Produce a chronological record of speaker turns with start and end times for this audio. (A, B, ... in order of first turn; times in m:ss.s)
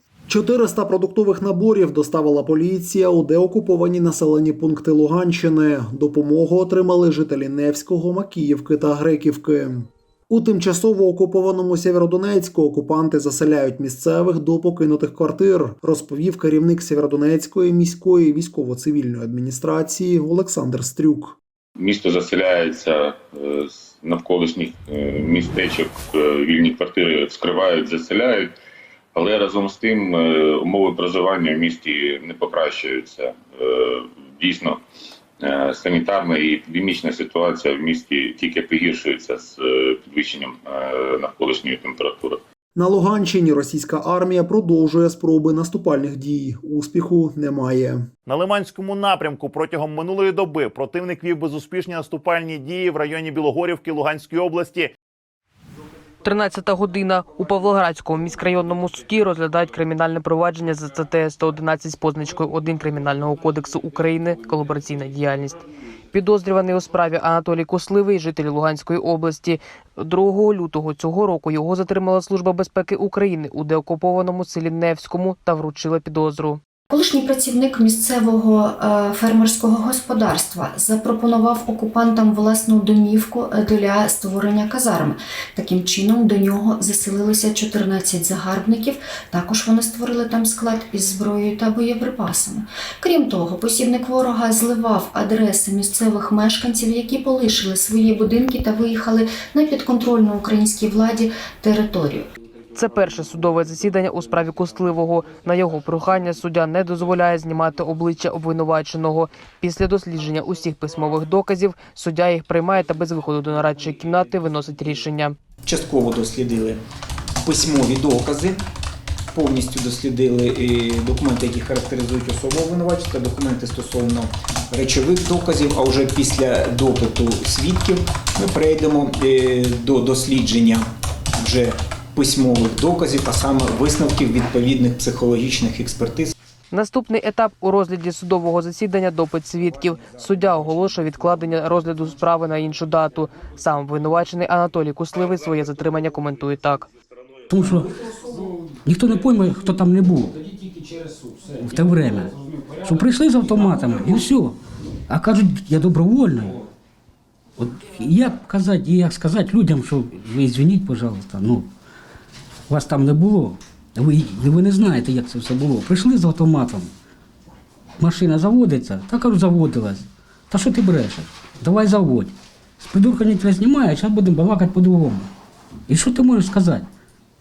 0:00.3-0:21.4 A
0:21.8-0:22.9 B
0:23.5-0:28.5 B
0:29.2-0:33.3 B
0:34.4-0:34.8 B
0:35.5-0:42.4 B
0:42.7-0:48.1 A
0:48.3-0:54.9 C
0:56.2-1:05.6 D
1:06.1-1:16.6 D
1:16.9-1:42.3 E
1:42.7-1:55.4 D
1:55.6-1:56.8 F
1:57.4-1:58.6 F
1:59.3-2:16.3 F
2:16.7-2:26.9 D
2:27.5-2:27.9 G
2:28.8-2:30.3 G
2:31.6-2:32.3 G
2:32.8-2:34.6 G
2:35.1-2:36.5 G
2:37.6-2:41.7 G
2:42.7-2:46.9 G
2:48.0-2:55.3 G
2:55.9-2:56.8 G